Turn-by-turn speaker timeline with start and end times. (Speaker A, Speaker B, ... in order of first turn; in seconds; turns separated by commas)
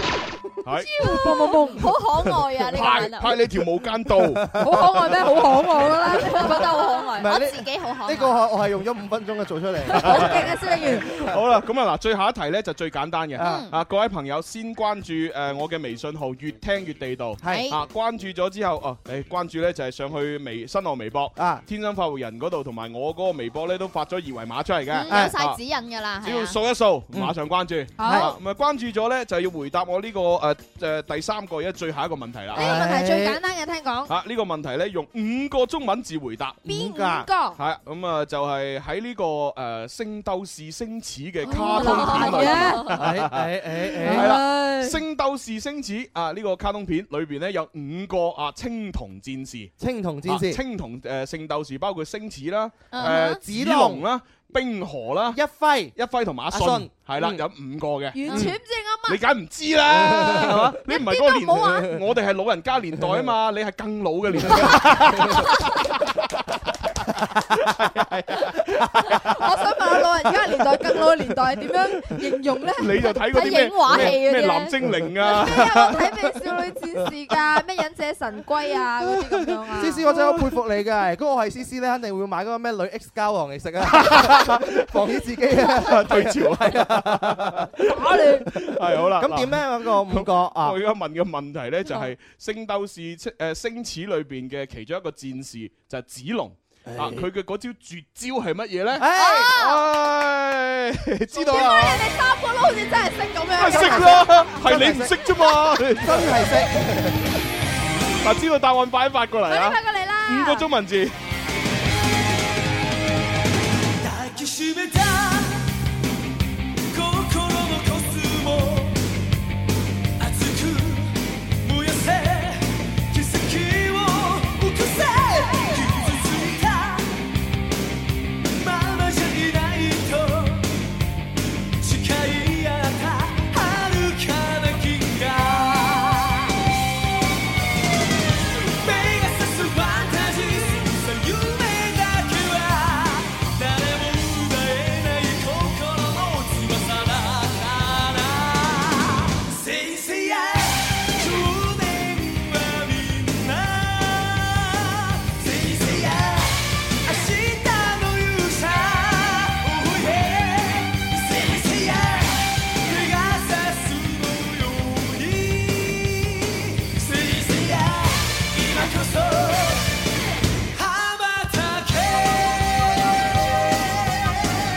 Speaker A: 0.6-0.9, Speaker B: 0.9-1.9, Speaker C: 1.0-3.3, Speaker A: 2.5-4.4, Speaker D: 4.2-4.9, Speaker B: 4.6-7.0, Speaker C: 6.1-8.4, Speaker D: 7.2-11.3, Speaker A: 9.9-25.6, Speaker B: 10.0-11.0, Speaker D: 13.4-13.6, Speaker C: 13.4-13.7, Speaker D: 17.4-17.7, Speaker C: 17.4-17.8, Speaker D: 21.4-21.6, Speaker C: 24.9-26.6, Speaker D: 25.1-25.3, Speaker A: 26.2-32.8, Speaker D: 28.0-28.3, Speaker B: 28.0-28.3, Speaker D: 32.5-33.4, Speaker B: 32.5-34.1, Speaker A: 34.1-36.6, Speaker D: 36.6-37.3, Speaker B: 36.6-37.6, Speaker A: 37.5-49.7, Speaker B: 41.4-42.9, Speaker C: 41.5-42.9, Speaker D: 42.9-44.4, Speaker C: 44.1-44.9, Speaker D: 49.8-50.6, Speaker A: 50.2-55.4, Speaker C: 52.9-53.4, Speaker D: 53.0-54.0, Speaker D: 55.3-55.9, Speaker A: 55.9-58.5, Speaker D: 56.5-57.4, Speaker B: 58.1-59.2, Speaker D: 58.3-58.5, Speaker A: 59.1-66.3, Speaker D: 59.9-60.8, Speaker B: 60.9-61.9, Speaker D: 64.3-65.4, Speaker A: 67.6-69.3, Speaker D: 68.3-68.8, Speaker B: 69.2-73.2, Speaker A: 72.8-76.1, Speaker C: 73.3-74.7, Speaker B: 75.2-80.0, Speaker D: 79.7-87.7, Speaker A: 79.8-80.5, Speaker A: 83.9-84.9, Speaker A: 85.5-102.0, Speaker B: 87.9-88.5, Speaker D: 88.5-90.8, Speaker D: 96.9-97.3, Speaker D: 98.9-99.6, Speaker B: 101.3-104.5, Speaker A: 103.5-106.6, Speaker D: 103.6-107.3, Speaker A: 108.2-111.1, Speaker B: 109.5-110.7, Speaker E: 114.0-115.6, Speaker E: 116.9-119.0, Speaker E: 120.2-127.1, Speaker E: 128.5-130.7, Speaker E: 131.8-136.5, Speaker E: 138.5-169.9, Speaker E: 170.7-174.3